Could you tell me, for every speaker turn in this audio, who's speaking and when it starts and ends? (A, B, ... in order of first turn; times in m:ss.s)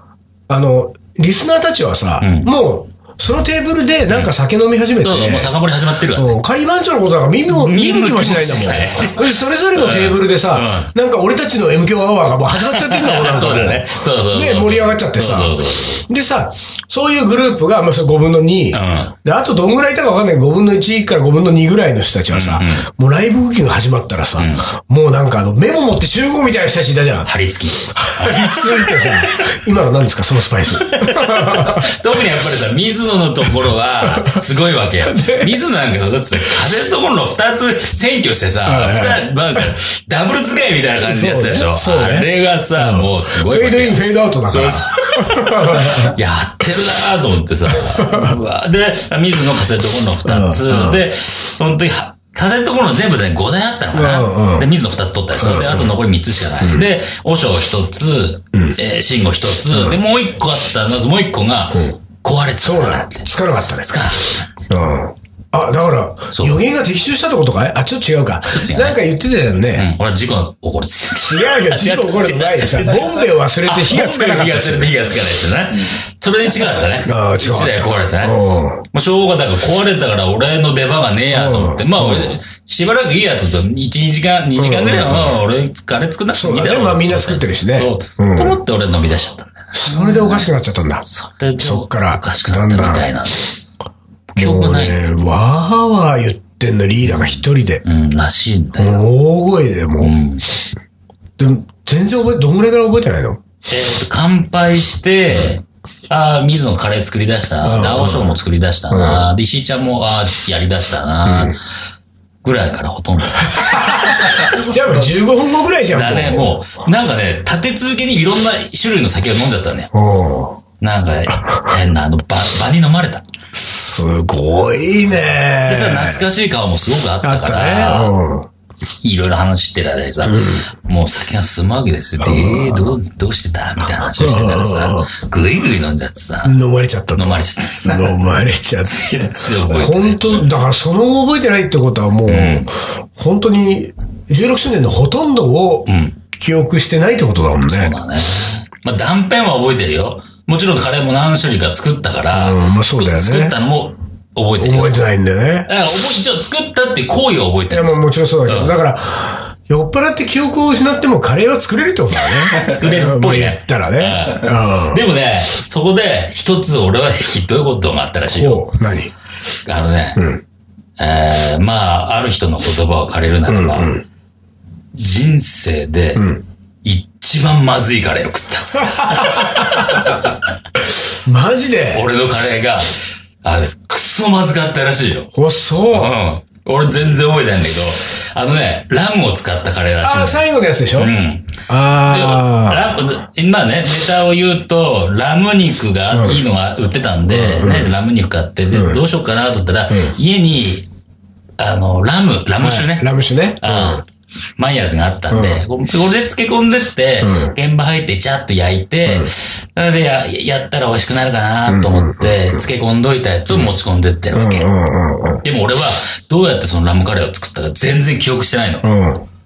0:00.5-0:05.5 A
0:02.2-0:02.5 B
0:05.0-0:06.4 B
0:06.2-0:27.3 A
0:07.5-0:10.9 B
0:12.6-0:16.1 B
0:18.7-0:19.2 B
0:22.3-0:22.9 B
0:24.4-0:24.7 B
0:27.2-0:29.4 B
0:27.9-0:32.0 A
0:30.8-1:03.3 B
0:34.0-0:34.4 A
0:35.0-0:35.6 A
0:38.7-0:39.2 A
0:41.0-0:46.2 A
0:47.8-0:48.4 A
0:50.3-0:51.0 A
0:53.9-0:54.7 A
0:55.4-0:55.9 A
0:59.7-1:00.0 A
1:02.6-1:03.9 A
1:03.8-1:04.5 B
1:04.7-1:09.9 A
1:06.3-1:06.6 B
1:08.5-1:09.0 B
1:09.8-1:18.4 B
1:11.2-1:15.0 A
1:17.0-1:18.8 A
1:18.9-1:30.5 B
1:21.3-1:22.3 A
1:24.6-1:25.4 A
1:26.3-1:28.6 A
1:29.7-1:31.0 A
1:31.0-1:33.6 B
1:31.6-1:33.1 A
1:34.3-1:35.0 B
1:34.4-1:37.8 A
1:37.0-1:39.0 B
1:38.8-1:40.1 A
1:40.0-1:40.5 B
1:41.4-1:43.4 A
1:43.7-1:51.6 B
1:47.6-1:48.4 A
1:48.9-1:49.2 A
1:51.2-1:51.6 A
1:52.4-1:54.6 B
1:53.5-1:56.6 A
1:55.9-1:59.9 B
1:59.9-2:00.6 A
2:00.8-2:03.2 B
2:03.5-2:06.2 A
2:05.7-2:08.2 B
2:07.2-2:08.5 A
2:09.0-2:16.6 B
2:10.2-2:10.7 A
2:12.2-2:12.9 A
2:14.2-2:15.1 A
2:16.4-2:19.0 A
2:17.2-2:18.2 B
2:18.9-2:20.5 B
2:19.6-2:28.0 A
2:22.3-2:22.7 B
2:25.9-2:26.2 B
2:27.7-2:35.0 B
2:32.3-2:33.6 A
2:34.6-2:35.7 A
2:35.7-2:38.8 B
2:37.7-2:45.0 A
2:42.5-2:48.6 B
2:48.3-2:49.1 A
2:49.6-2:50.3 B
2:50.2-2:50.4 A
2:51.0-2:53.9 B
2:53.5-2:54.0 A
2:54.9-2:56.3 B
2:56.2-2:56.4 A
2:56.8-3:00.4 B
2:59.0-3:00.2 A
3:00.9-3:02.0 A
3:01.9-3:05.3 B
3:05.3-3:06.2 A
3:05.9-3:10.4 B
3:10.0-3:11.1 A
3:11.0-3:20.9 B
3:11.7-3:12.9 A
3:16.1-3:16.4 A
3:17.3-3:17.9 A
3:18.7-3:19.0 A
3:19.9-3:20.2 A
3:21.6-3:23.1 B
3:22.6-3:24.0 A
3:23.6-3:24.0 B
3:24.6-3:34.7 B
3:25.3-3:25.6 A
3:27.2-3:27.6 A
3:31.7-3:32.6 A
3:34.3-3:35.4 A
3:35.4-3:38.9 B
3:38.8-3:39.3 A